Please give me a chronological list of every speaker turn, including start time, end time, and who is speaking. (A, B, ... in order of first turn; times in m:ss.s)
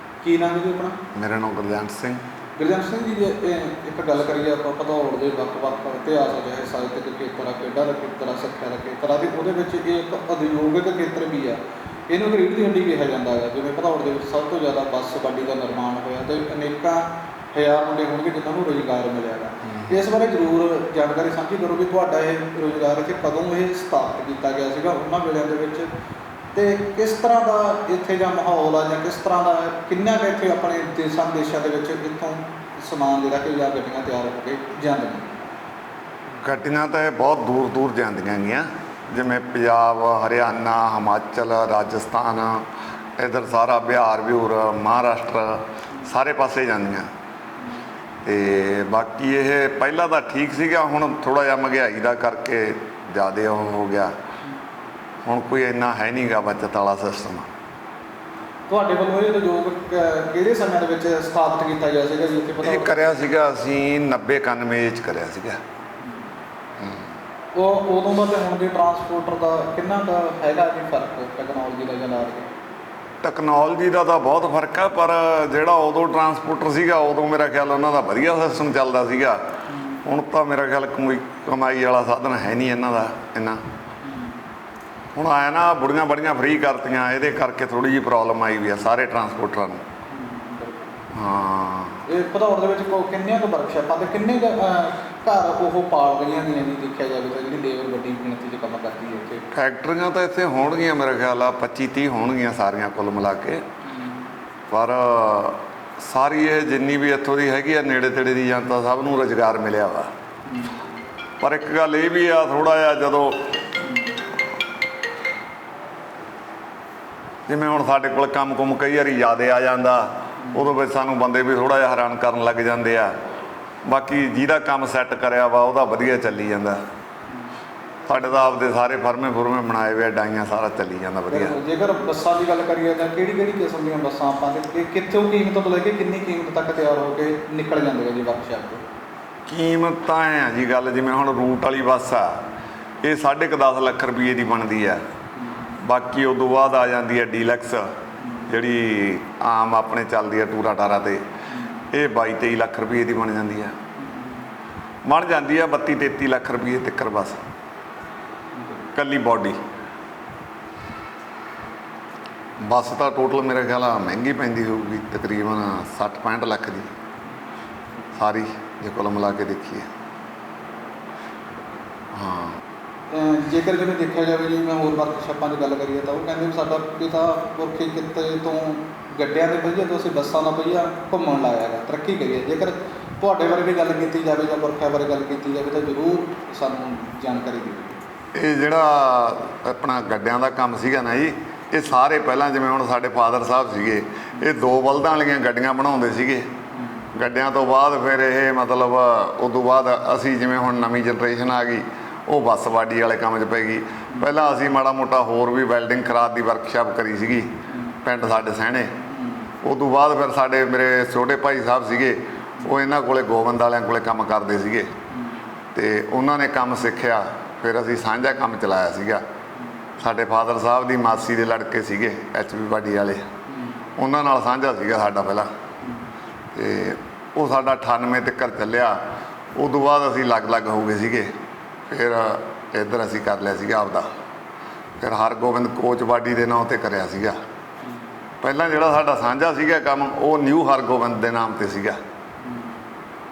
0:00.2-0:01.0 A
0:01.1-0:02.2 B
0:02.6-0:25.9 A
0:26.5-0:35.4 A
0:36.4-0:42.6 B
0:43.2-0:47.1 B
0:48.2-0:54.1 B
0:55.2-0:57.5 B
0:58.7-1:03.2 A
1:02.6-1:05.6 B
1:06.8-1:07.0 B
1:07.5-1:12.5 A
1:13.2-1:19.4 B
1:19.7-1:20.0 A
1:20.0-1:23.6 B
1:24.0-1:24.3 A
1:25.1-1:29.8 B
1:30.1-1:31.0 A
1:31.1-1:32.0 B
1:32.1-1:39.4 A
1:39.5-1:43.6 B
1:43.9-1:44.2 A
1:44.7-1:50.1 B
1:50.4-1:50.8 A
1:51.4-1:53.5 B
1:53.8-1:54.1 A
1:57.5-2:03.1 B
2:00.4-2:00.7 A
2:03.9-2:06.8 B
2:08.1-2:11.6 B
2:11.3-2:18.8 A
2:19.5-2:22.4 B
2:23.0-2:25.0 B
2:25.4-2:25.7 A
2:25.8-2:27.9 B
2:28.2-2:28.5 A
2:28.5-2:31.2 B
2:31.5-2:31.8 A
2:31.9-2:33.7 B
2:34.0-2:34.4 A
2:35.0-2:37.4 B
2:38.9-2:39.6 B
2:42.6-2:46.9 B
2:48.1-2:49.9 B
2:52.1-2:52.6 B
2:53.1-3:08.0 A
3:08.3-3:16.4 B
3:16.7-3:17.0 A
3:17.1-3:27.5 B
3:27.7-3:28.0 A
3:28.0-3:28.9 B
3:29.1-3:29.5 A
3:29.6-3:34.9 B
3:35.1-3:35.4 A
3:35.7-3:39.2 B
3:40.0-3:43.2 B
3:43.5-3:43.8 A
3:44.0-3:45.5 B
3:46.5-3:49.0 B
3:49.6-3:51.3 B
3:51.9-3:54.1 B
3:55.0-3:57.4 B
3:58.4-4:02.0 B
4:02.4-4:02.8 A